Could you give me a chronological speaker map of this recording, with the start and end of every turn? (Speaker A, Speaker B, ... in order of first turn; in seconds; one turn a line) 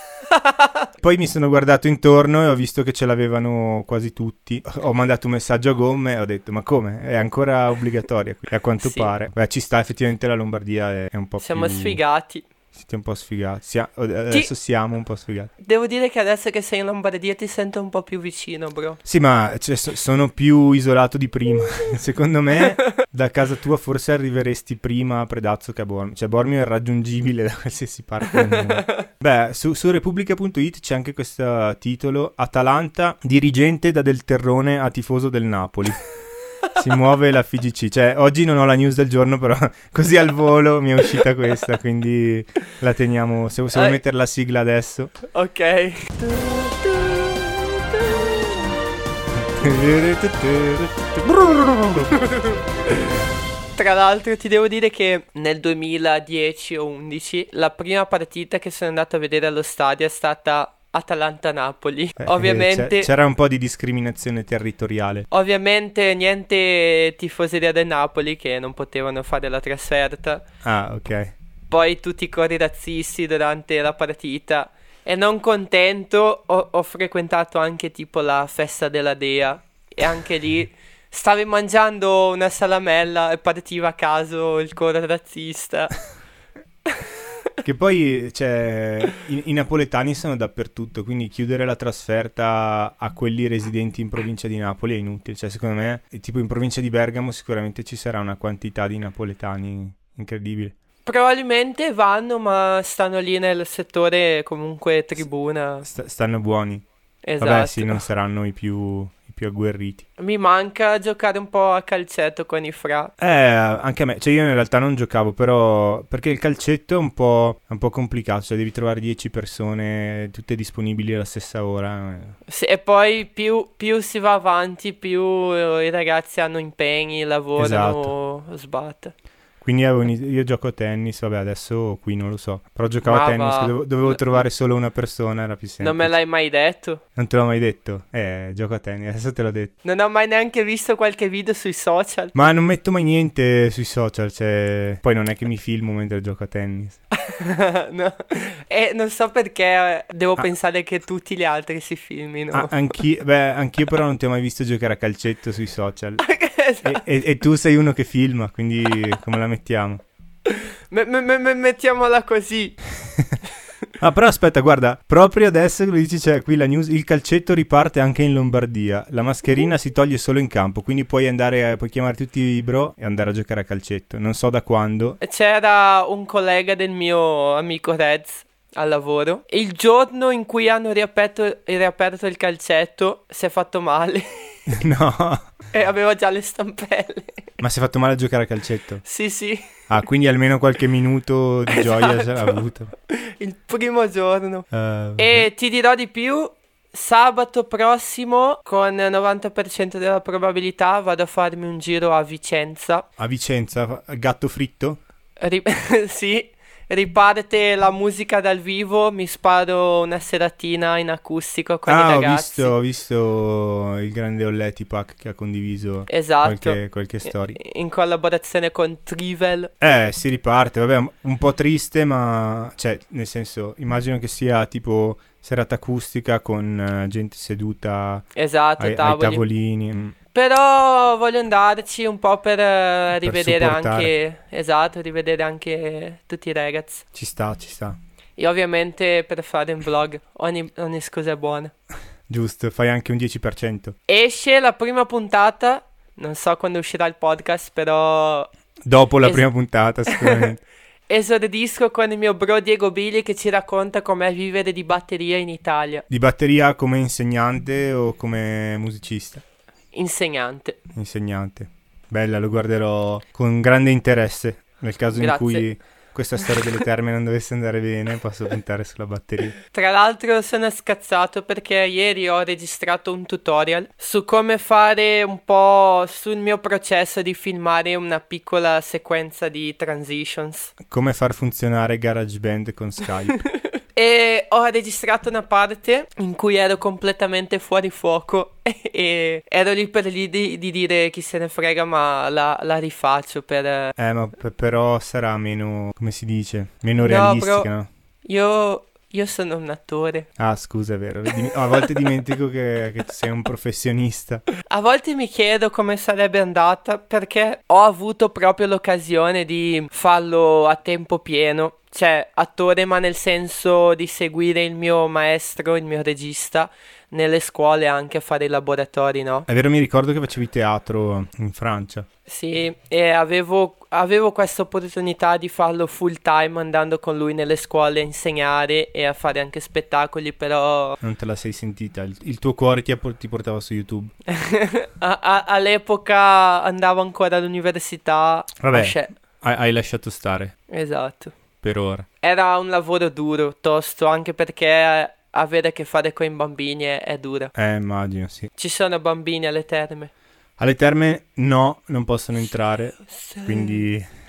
Speaker A: 0.3-0.7
Speaker B: 1.0-12.0
Speaker A: 8.8-9.1
Speaker A: 11.4-12.5
Speaker B: 12.7-15.5
Speaker A: 15.6-19.0
Speaker B: 19.0-36.0
Speaker A: 28.7-29.0
Speaker B: 36.7-45.1
Speaker A: 43.7-44.0
Speaker A: 45.3-48.7
Speaker B: 49.4-52.2
Speaker A: 52.1-52.6
Speaker A: 53.8-63.1
Speaker B: 62.2-65.3
Speaker A: 65.3-70.4
Speaker B: 70.6-71.3
Speaker A: 71.7-86.0
Speaker B: 87.6-100.7
Speaker A: 101.0-105.9
Speaker B: 105.8-106.8
Speaker A: 107.2-108.0
Speaker B: 107.4-110.0
Speaker A: 110.2-113.1
Speaker B: 113.2-122.3
Speaker A: 122.5-129.1
Speaker B: 127.6-128.1
Speaker B: 129.6-136.1
Speaker A: 133.0-134.4
Speaker A: 135.8-137.0
Speaker B: 137.2-139.7
Speaker A: 139.8-142.3
Speaker B: 142.3-147.0
Speaker A: 147.1-152.7
Speaker B: 152.5-156.2
Speaker A: 156.2-157.0
Speaker B: 156.8-160.0
Speaker A: 160.5-162.8
Speaker B: 163.0-163.4
Speaker B: 164.0-175.2
Speaker A: 175.2-184.6
Speaker B: 184.7-185.4
Speaker A: 185.7-187.5
Speaker B: 187.6-189.0
Speaker A: 189.0-189.7
Speaker B: 189.9-192.9
Speaker A: 191.7-192.6
Speaker A: 193.1-194.7
Speaker B: 194.7-195.5
Speaker A: 195.2-203.1
Speaker B: 203.2-205.0
Speaker A: 205.4-212.7
Speaker B: 211.9-217.6
Speaker A: 216.1-219.7
Speaker B: 219.8-230.2
Speaker A: 228.3-229.4
Speaker A: 230.3-237.0
Speaker B: 233.2-234.1
Speaker B: 237.1-238.0
Speaker A: 238.4-241.7
Speaker B: 242.3-243.9
Speaker A: 244.1-248.5
Speaker B: 248.8-250.6
Speaker A: 250.1-250.5
Speaker A: 251.1-256.0
Speaker B: 256.1-259.4
Speaker A: 259.9-260.8
Speaker B: 260.9-269.6
Speaker A: 265.1-265.7
Speaker A: 269.7-280.7
Speaker B: 280.8-283.4
Speaker A: 283.9-293.9
Speaker B: 294.0-297.9
Speaker A: 297.0-297.7
Speaker A: 298.2-300.3
Speaker B: 300.4-304.5
Speaker A: 304.7-319.4
Speaker B: 319.5-322.1
Speaker A: 322.3-331.0
Speaker B: 331.0-334.1
Speaker A: 334.3-339.1
Speaker B: 338.6-340.5
Speaker A: 340.7-341.3
Speaker B: 341.6-342.1
Speaker A: 342.2-347.5
Speaker B: 347.5-348.5
Speaker A: 348.6-350.1
Speaker B: 350.6-354.1
Speaker A: 353.1-353.8